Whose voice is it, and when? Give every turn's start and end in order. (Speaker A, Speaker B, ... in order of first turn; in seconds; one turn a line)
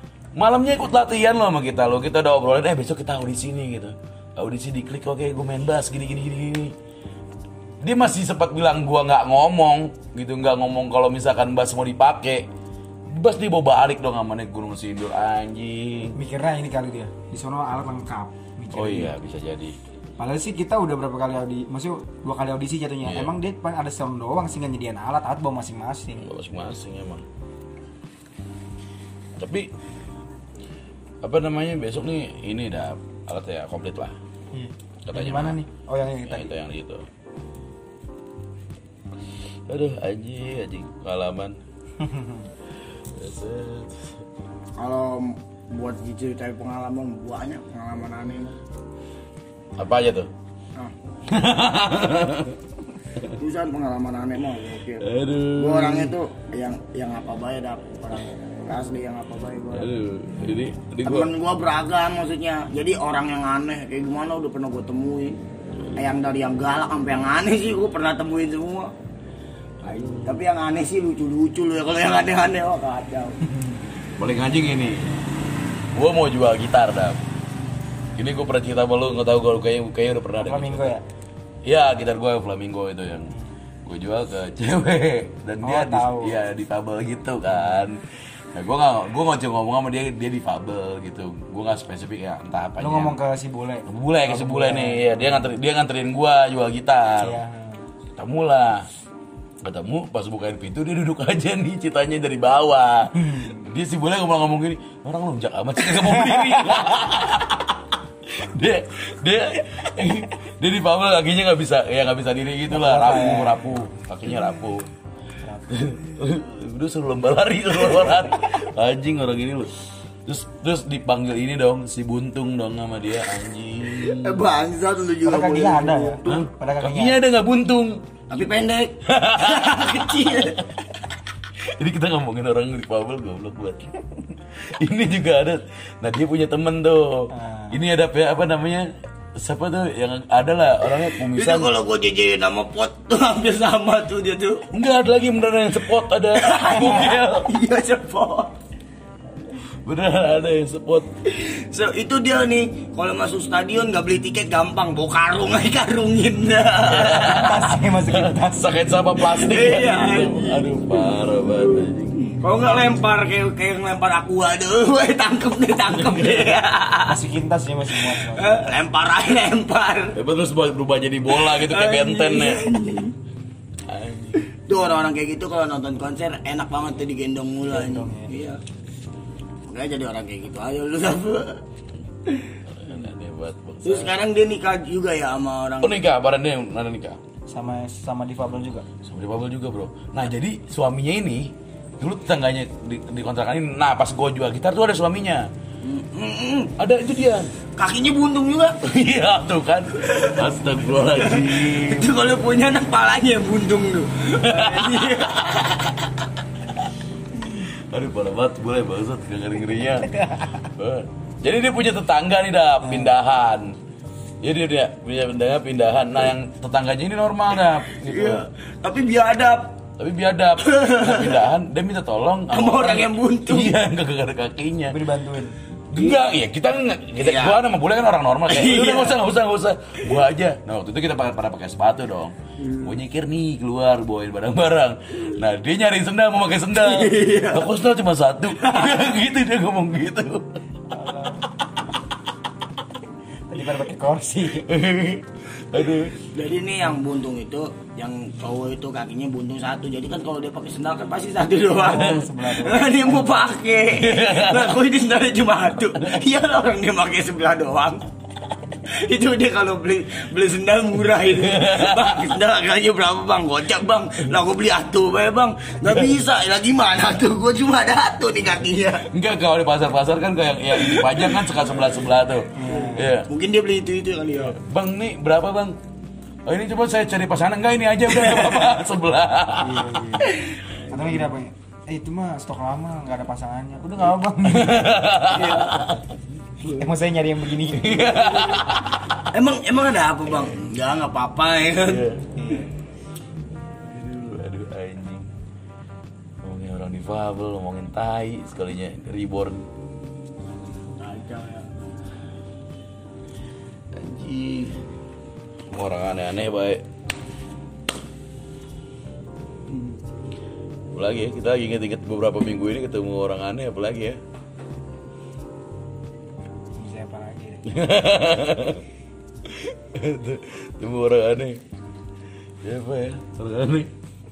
Speaker A: 0.3-6.7
Speaker A: 7.8-12.5
Speaker A: 13.1-16.1
Speaker B: 16.1-19.1
Speaker A: 18.7-19.8
Speaker B: 20.2-26.3
Speaker A: 23.0-23.3
Speaker A: 26.2-27.2
Speaker A: 29.4-29.7
Speaker A: 31.2-34.1
Speaker B: 34.5-36.5
Speaker A: 35.0-35.6
Speaker A: 36.3-37.0
Speaker A: 39.7-41.6
Speaker B: 42.0-42.5
Speaker A: 43.1-44.2
Speaker C: 44.8-48.6
Speaker A: 49.8-50.3
Speaker A: 51.3-52.6
Speaker C: 53.4-59.9
Speaker A: 55.0-56.1
Speaker A: 59.7-61.3
Speaker C: 61.0-65.4
Speaker C: 66.0-68.9
Speaker A: 69.8-70.4
Speaker C: 69.8-73.4
Speaker A: 74.2-75.2
Speaker A: 75.9-77.2
Speaker A: 78.2-81.0
Speaker B: 80.4-81.0
Speaker A: 81.6-83.3
Speaker A: 83.8-88.0
Speaker B: 85.6-86.4
Speaker A: 88.5-93.2
Speaker B: 92.8-95.5
Speaker A: 93.9-97.3
Speaker B: 97.2-97.8
Speaker A: 98.2-98.8
Speaker A: 99.6-114.9
Speaker B: 103.2-103.7
Speaker B: 106.2-106.7
Speaker B: 112.7-113.7
Speaker B: 115.4-115.7
Speaker A: 115.7-119.7
Speaker A: 120.2-124.4
Speaker C: 123.9-126.2
Speaker B: 125.2-127.2
Speaker A: 126.2-128.0
Speaker C: 128.3-130.6
Speaker A: 129.0-130.6
Speaker A: 131.6-134.0
Speaker A: 134.5-141.7
Speaker B: 137.3-137.8
Speaker C: 141.1-144.6
Speaker A: 144.7-147.4
Speaker C: 146.4-148.5
Speaker A: 149.8-151.1
Speaker C: 151.3-157.3
Speaker A: 156.9-162.4
Speaker B: 156.9-158.7
Speaker C: 159.2-160.7
Speaker C: 161.4-167.2
Speaker A: 165.8-166.6
Speaker B: 167.1-168.7
Speaker C: 168.0-170.2
Speaker A: 170.1-172.7
Speaker C: 171.3-173.1
Speaker A: 173.8-174.4
Speaker C: 174.5-178.6
Speaker B: 177.7-178.3
Speaker C: 179.7-181.6
Speaker C: 182.2-182.6
Speaker A: 182.7-184.2
Speaker C: 183.8-186.0
Speaker A: 185.8-187.2
Speaker B: 187.5-188.8
Speaker A: 189.0-195.5
Speaker C: 195.8-196.7
Speaker A: 196.8-197.5
Speaker C: 197.8-198.8
Speaker A: 198.8-202.1
Speaker C: 200.0-200.4
Speaker C: 201.0-206.0
Speaker A: 204.4-205.7
Speaker A: 207.6-213.7
Speaker A: 214.4-218.4
Speaker C: 217.9-219.8
Speaker A: 220.0-225.0
Speaker C: 220.6-221.4
Speaker C: 222.5-223.7
Speaker B: 224.9-225.6
Speaker A: 225.9-240.6
Speaker C: 227.2-227.6
Speaker C: 228.5-229.2
Speaker C: 232.6-233.0
Speaker C: 236.8-237.7
Speaker C: 238.6-239.0
Speaker B: 240.9-241.4
Speaker B: 243.5-244.7
Speaker A: 244.6-246.1
Speaker C: 246.3-258.0
Speaker B: 251.7-253.3
Speaker A: 253.9-254.8
Speaker C: 258.9-269.1
Speaker A: 261.3-262.3
Speaker A: 269.1-273.3
Speaker C: 270.8-271.4
Speaker B: 272.5-273.1
Speaker C: 272.7-274.6
Speaker A: 274.4-275.8
Speaker A: 276.4-280.3
Speaker C: 278.1-278.7
Speaker B: 279.6-285.1
Speaker A: 284.4-286.1
Speaker C: 285.3-285.7
Speaker B: 286.6-288.2
Speaker A: 287.7-289.2
Speaker C: 289.3-292.0
Speaker A: 291.8-292.3
Speaker B: 292.4-292.7
Speaker A: 293.9-295.3
Speaker A: 296.4-299.7
Speaker C: 300.9-301.8
Speaker A: 303.9-304.8
Speaker A: 305.7-306.8
Speaker A: 310.9-314.2
Speaker B: 316.8-317.6
Speaker A: 317.6-318.8
Speaker A: 319.4-321.6
Speaker A: 322.6-323.9